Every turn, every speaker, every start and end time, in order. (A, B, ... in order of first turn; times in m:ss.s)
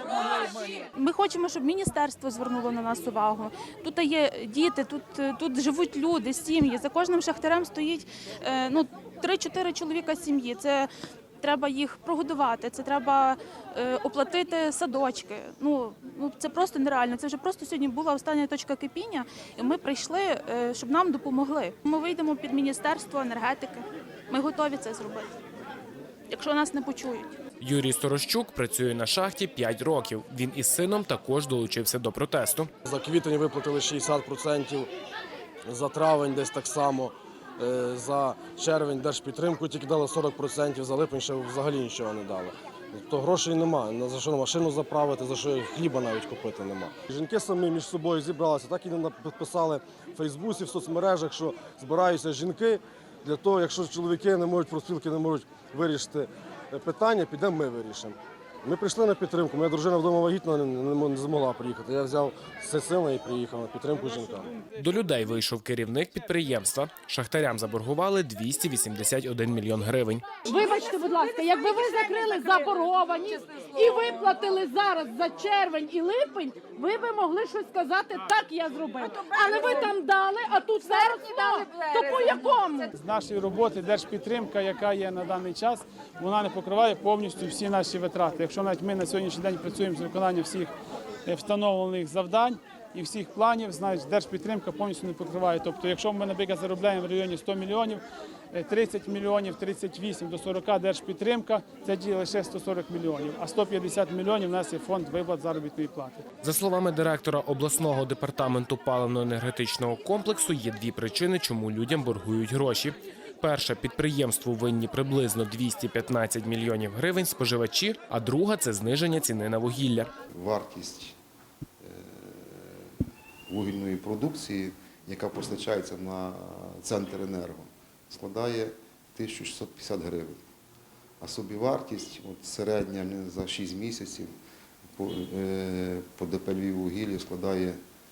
0:00.9-0:10.9 A
0:11.4-0:25.3 A
0:26.3-0:27.3 A
0:27.6-0:32.7 B
0:32.8-0:34.9 C
0:35.7-1:04.5 C
1:04.8-1:10.3 B
1:10.4-1:22.9 D
1:22.9-1:30.8 E
1:31.3-1:46.2 E
1:46.4-2:00.1 B
2:00.3-2:01.2 F
2:01.8-2:02.9 F
2:03.5-2:10.4 F
2:11.2-2:14.3 F
2:15.0-2:17.8 F